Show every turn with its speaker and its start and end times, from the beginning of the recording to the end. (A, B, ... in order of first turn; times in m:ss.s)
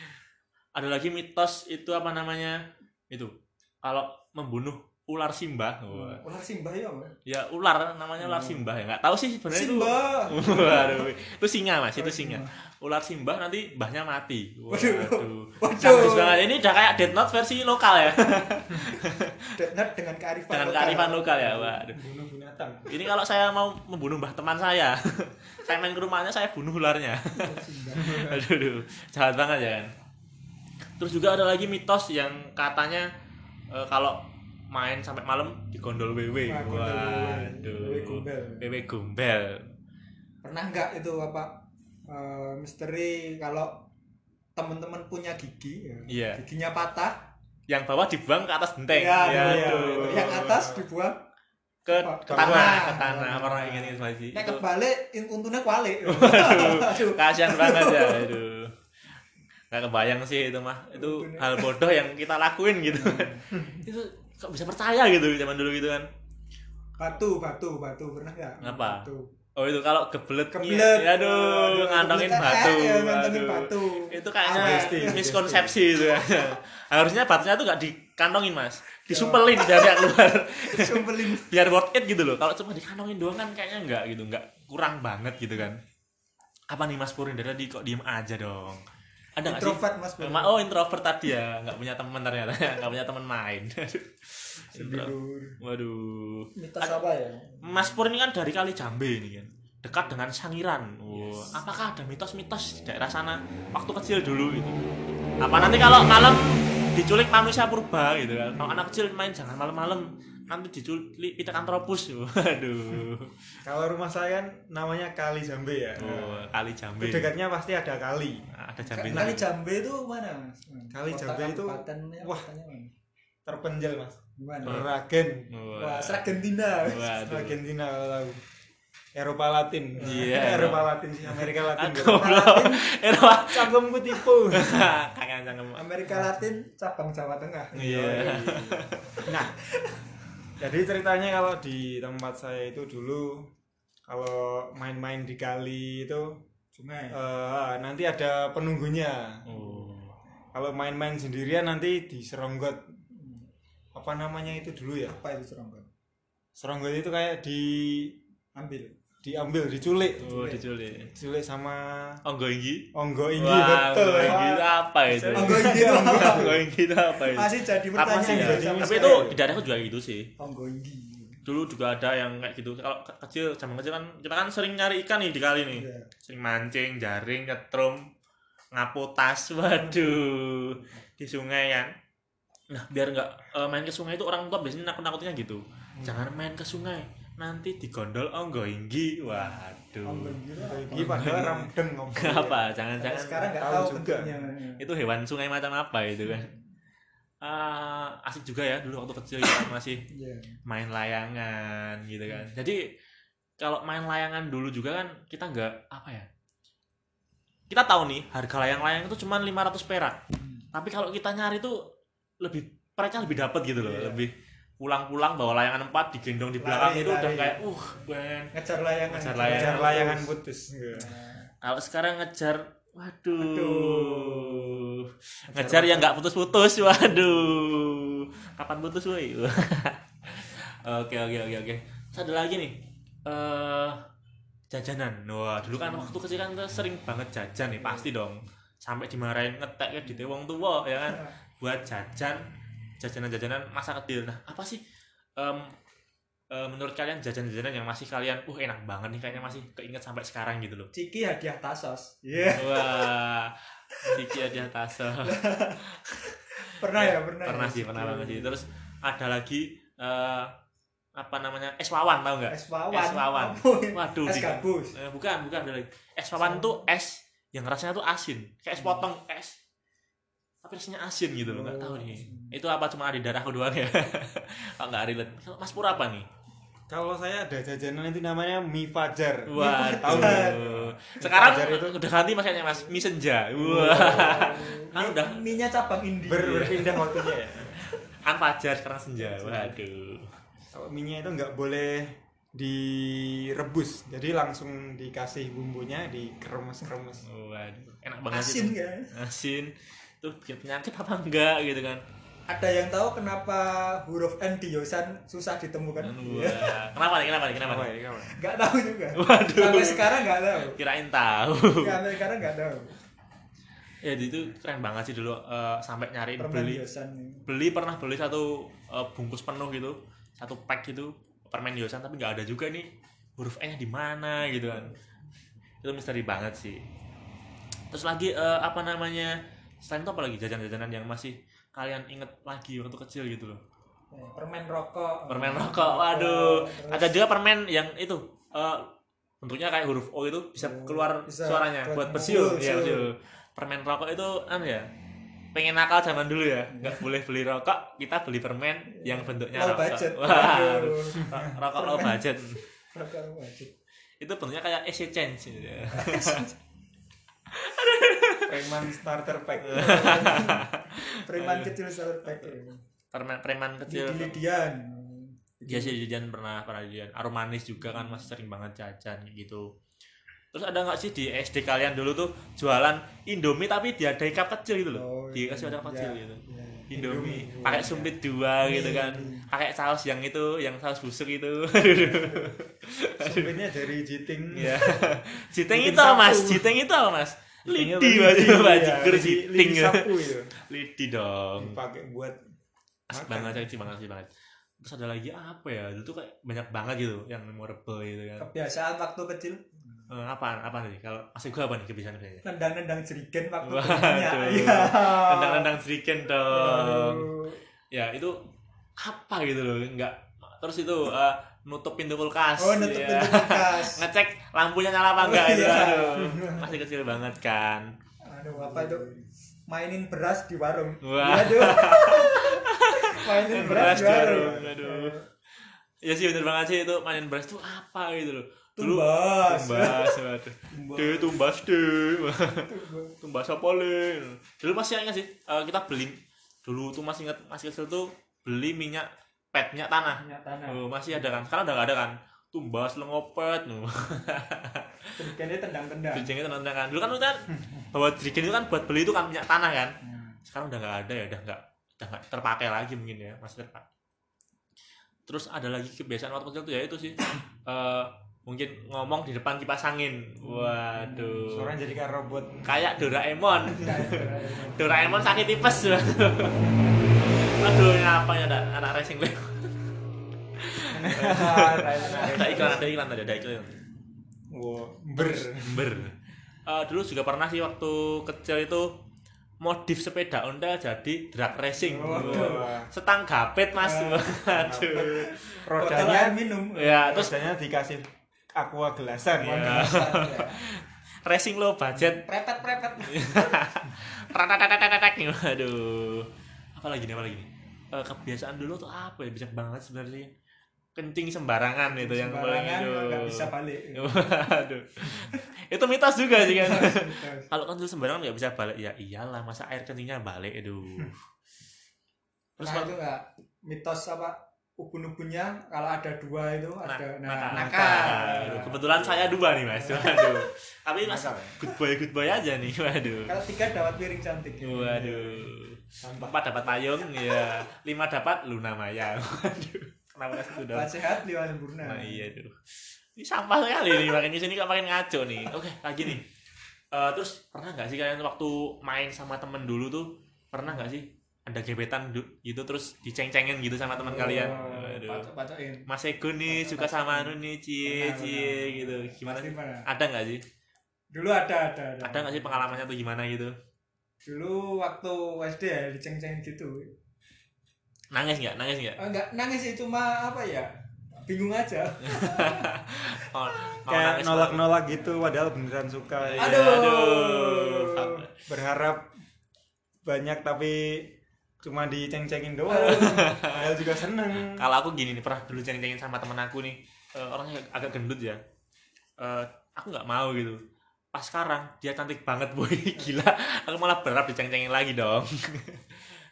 0:00.7-0:06.2 A
0:05.9-0:07.1 B
0:07.2-0:19.4 A
0:08.2-0:08.6 B
0:09.5-0:11.1 B
0:12.0-0:12.5 B
0:14.7-0:16.4 B
0:19.5-0:21.6 B
0:20.5-0:22.0 A
0:21.4-0:22.9 C
0:22.9-0:29.9 A
0:27.3-0:28.4 B
0:31.0-0:33.1 A
0:33.7-0:39.6 A
0:36.5-0:38.7 B
0:40.4-0:43.8 B
0:44.6-0:47.2 B
0:46.1-0:46.4 A
0:47.7-0:50.5 A
0:48.9-0:51.2 B
0:49.3-0:50.8 C
0:51.8-0:54.6 A
0:51.9-0:58.3 B
0:52.3-0:52.8 C
0:56.0-0:58.8 A
0:59.7-1:06.1 A
1:00.9-1:01.7 B
1:02.9-1:03.8 B
1:07.0-1:09.3 B
1:08.6-1:25.8 A
1:10.5-1:15.2 B
1:14.5-1:15.8 C
1:19.1-1:20.1 B
1:20.6-1:21.5 B
1:26.7-1:28.8 A
1:29.4-1:37.0 A
1:29.4-1:30.6 B
1:34.7-1:35.6 B
1:36.6-1:37.8 B
1:37.6-1:44.8 A
1:41.1-1:41.5 B
1:45.4-1:53.3 A
1:45.6-1:46.1 B
1:53.6-1:58.5 C
1:56.0-1:57.3 A
1:58.5-1:59.5 A
1:58.9-2:02.9 B
2:00.9-2:02.4 C
2:03.4-2:05.5 C
2:04.4-2:04.8 B
2:05.5-2:06.2 A
2:05.8-2:07.1 B
2:06.8-2:07.6 A
2:07.2-2:08.4 C
2:09.1-2:12.4 C
2:10.0-2:15.8 A
2:10.0-2:10.4 B
2:12.0-2:12.9 B
2:13.3-2:14.9 C
2:15.8-2:18.3 B
2:17.7-2:19.2 A
2:17.7-2:19.5 C
2:20.6-2:23.5 C
2:24.1-2:26.4 C
2:26.7-2:27.2 B
2:27.1-2:29.4 C
2:29.5-2:30.1 A
2:30.5-2:32.8 C
2:33.1-2:33.4 B
2:33.9-2:35.2 C
2:35.0-2:35.9 B
2:36.6-2:38.2 C
2:38.5-2:38.9 B
2:39.2-2:40.4 C
2:40.2-2:41.1 A
2:40.2-2:40.6 B
2:41.1-2:42.2 C
2:42.2-2:50.3 A
2:42.9-2:46.6 C
2:44.2-2:44.5 B
2:45.3-2:46.6 B
2:47.3-2:49.4 B
2:48.2-2:49.4 C
2:50.4-2:51.4 B
2:51.4-2:58.1 A
2:55.7-2:56.1 B
2:58.7-3:01.9 A
2:59.8-3:00.1 B
3:02.7-3:10.4 A
3:09.3-3:11.5 B
3:10.6-3:12.6 C
3:10.9-3:13.6 A
3:13.0-3:14.8 B
3:13.6-3:14.3 C
3:14.8-3:16.5 A
3:17.4-3:20.0 A
3:20.1-3:20.6 B
3:20.6-3:22.8 A
3:23.6-3:26.3 A
3:27.7-3:30.2 A
3:30.4-3:30.6 B
3:30.7-3:31.9 A
3:32.4-3:38.5 A
3:33.8-3:34.2 B
3:36.6-3:37.7 B
3:38.5-3:40.3 B
3:39.1-3:40.1 A
3:39.4-3:41.1 C
3:40.9-3:41.5 B
3:41.6-3:54.0 A
3:43.4-3:44.8 B
3:45.5-3:46.1 C
3:54.7-4:02.4 A
3:55.6-3:56.1 B
3:57.8-3:58.1 B
4:03.0-4:04.8 A
4:05.4-4:05.7 A
4:06.5-4:10.9 A
4:10.9-4:13.0 B
4:12.5-4:16.1 A
4:14.0-4:14.5 B
4:15.2-4:18.6 B
4:16.6-4:20.5 A
4:21.2-4:29.6 A
4:22.5-4:24.9 B
4:26.4-4:26.9 B
4:30.6-4:36.3 A
4:31.4-4:32.5 B
4:36.9-4:42.0 C
4:39.5-4:45.4 A
4:39.5-4:40.7 B
4:43.5-4:47.4 B
4:46.2-4:47.8 C
4:48.2-4:50.3 A
4:49.2-4:49.8 B
4:50.7-4:57.2 C
4:57.2-5:02.0 A
4:58.3-4:59.1 B
5:02.5-5:06.8 B
5:06.0-5:07.9 A
5:07.6-5:08.3 C
5:08.4-5:10.8 B
5:09.2-5:10.0 A
5:10.6-5:12.0 A
5:11.7-5:13.0 B
5:14.0-5:16.8 A
5:16.4-5:17.5 B
5:17.4-5:24.9 A
5:24.6-5:25.0 B
5:25.8-5:26.8 A
5:27.9-5:33.6 A
5:34.1-5:37.2 B
5:35.3-5:38.9 A
5:39.4-5:44.9 A
5:40.6-5:43.1 B
5:45.5-5:52.6 A
5:46.7-5:47.0 B
5:48.9-5:53.7 B
5:54.2-5:56.5 A
5:55.9-5:56.6 B
5:57.5-5:58.8 A
5:58.5-6:00.5 C
5:59.6-6:02.8 B
5:59.7-6:01.8 A
6:03.1-6:04.4 A
6:03.9-6:06.0 B
6:05.6-6:09.7 A
6:07.8-6:08.2 B
6:10.5-6:23.6 A
6:14.9-6:18.1 B
6:17.0-6:17.5 C
6:18.6-6:19.5 B
6:21.9-6:22.6 B
6:23.2-6:26.7 C
6:24.5-6:31.8 A
6:27.7-6:30.5 C
6:31.6-6:32.4 C
6:33.1-6:34.3 A
6:33.1-6:33.7 C
6:34.8-6:38.4 A
6:38.4-6:39.7 B
6:40.1-6:42.4 A
6:42.4-6:45.7 B
6:43.6-6:47.3 A
6:46.5-6:47.6 B
6:47.9-6:48.4 A
6:49.0-6:57.9 A
6:52.6-6:54.0 B
6:55.2-6:56.8 B
6:58.3-7:05.2 B
7:01.0-7:05.2 A
7:03.5-7:04.8 C
7:06.0-7:12.7 A
7:08.8-7:10.2 B
7:10.7-7:11.4 B
7:12.7-7:13.1 B
7:13.2-7:25.2 A
7:20.2-7:21.4 B
7:25.2-7:26.3 B
7:26.1-7:33.8 A
7:30.0-7:30.4 B
7:35.3-7:41.7 A
7:40.4-7:41.4 B
7:41.5-7:42.7 C
7:42.6-7:49.7 A
7:43.7-7:44.8 B
7:50.6-7:53.8 A
7:50.9-7:52.9 C
7:52.0-7:52.8 B
7:54.5-7:56.0 C
7:55.2-7:56.1 A
7:56.6-7:59.0 A
7:59.6-8:05.6 A
8:01.8-8:02.7 B
8:02.0-8:02.9 C
8:03.8-8:04.4 B
8:04.5-8:06.4 C
8:05.6-8:07.4 B
8:06.7-8:07.3 A
8:07.1-8:09.9 C
8:09.4-8:12.2 A
8:09.4-8:10.6 B
8:12.0-8:13.6 B
8:13.0-8:20.3 A
8:21.0-8:31.2 A
8:21.9-8:24.1 B
8:26.4-8:27.5 B
8:32.6-8:32.9 A
8:32.6-8:39.1 B
8:36.8-8:43.4 A
8:39.7-8:40.4 B
8:43.3-8:45.2 B
8:44.6-8:50.9 A
8:45.0-8:45.3 C
8:46.0-8:46.3 C
8:50.5-8:52.4 B
8:51.8-8:52.6 A
8:53.2-8:56.2 A
8:56.9-9:05.3 A
9:03.9-9:05.8 B
9:04.2-9:04.8 C
9:05.9-9:10.4 A
9:06.5-9:09.9 B
9:11.1-9:12.9 B
9:12.0-9:13.5 A
9:14.2-9:16.9 B
9:18.1-9:19.0 A
9:19.0-9:20.7 B
9:21.2-9:22.7 B
9:22.0-9:24.8 A
9:23.9-9:26.7 C
9:26.2-9:28.3 A
9:26.4-9:28.2 B
9:28.4-9:29.1 C
9:30.0-9:34.6 C
9:32.7-9:33.4 B
9:32.8-9:33.6 A
9:34.4-9:38.4 A
9:39.2-9:40.6 A
9:41.1-9:46.2 A